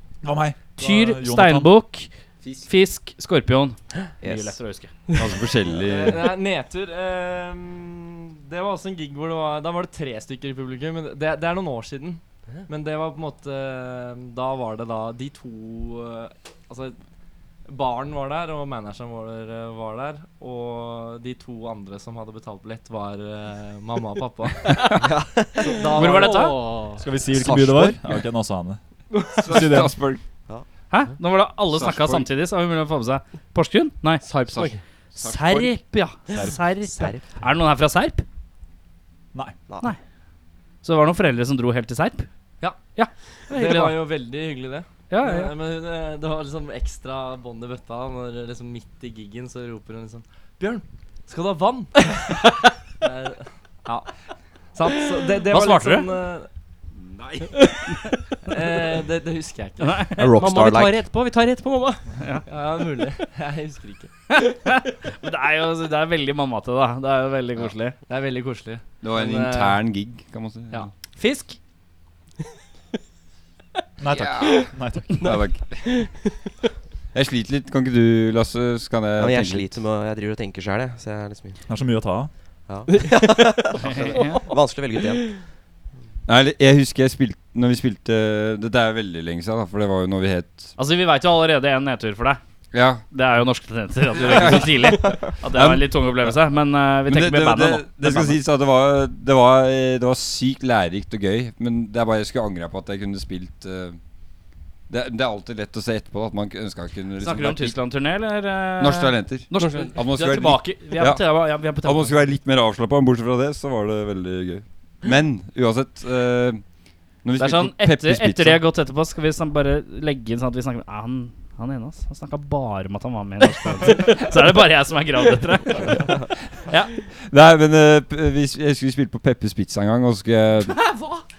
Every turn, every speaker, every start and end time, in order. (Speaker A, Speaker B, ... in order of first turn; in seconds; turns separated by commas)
Speaker A: 0.2-1.7, Speaker B: 0.8-2.1, Speaker C: 2.4-2.7, Speaker B: 2.6-4.9, Speaker D: 4.2-4.6, Speaker C: 5.1-6.3, Speaker E: 5.8-17.0, Speaker E: 17.7-24.8, Speaker D: 24.9-25.9, Speaker E: 25.6-26.6, Speaker F: 25.9-27.1, Speaker B: 25.9-26.6, Speaker A: 27.0-28.8, Speaker D: 27.3-28.0, Speaker C: 29.3-30.2, Speaker A: 29.4-29.9, Speaker B: 30.9-34.3, Speaker C: 31.7-32.3, Speaker F: 34.2-34.8, Speaker C: 34.4-35.7, Speaker B: 35.1-38.2, Speaker D: 36.8-37.2, Speaker D: 39.7-39.9, Speaker B: 40.8-42.3, Speaker B: 42.9-44.0, Speaker E: 43.5-54.1, Speaker B: 45.1-45.5, Speaker E: 54.7-56.5, Speaker B: 55.5-56.1, Speaker C: 57.0-57.5, Speaker E: 58.4-60.1, Speaker B: 59.8-60.2, Speaker D: 60.2-61.0, Speaker F: 60.3-62.1, Speaker B: 62.2-62.4, Speaker E: 62.5-64.1, Speaker B: 64.3-67.9, Speaker E: 68.1-69.8, Speaker C: 69.0-70.9, Speaker B: 71.2-71.6, Speaker A: 74.0-75.4, Speaker C: 74.1-76.0, Speaker F: 75.3-76.2, Speaker C: 77.1-79.8, Speaker D: 79.2-81.6, Speaker A: 81.7-82.3, Speaker D: 82.7-85.4, Speaker F: 82.9-84.4, Speaker B: 83.8-84.4, Speaker C: 86.2-90.7, Speaker B: 90.8-92.4, Speaker C: 92.7-93.0, Speaker B: 93.1-98.4, Speaker C: 94.1-96.4, Speaker C: 97.0-104.0, Speaker C: 104.9-107.8, Speaker B: 107.2-112.3, Speaker C: 108.8-118.6, Speaker F: 109.5-109.9, Speaker B: 117.4-126.2, Speaker B: 126.7-126.9, Speaker C: 127.2-130.8, Speaker B: 130.7-131.2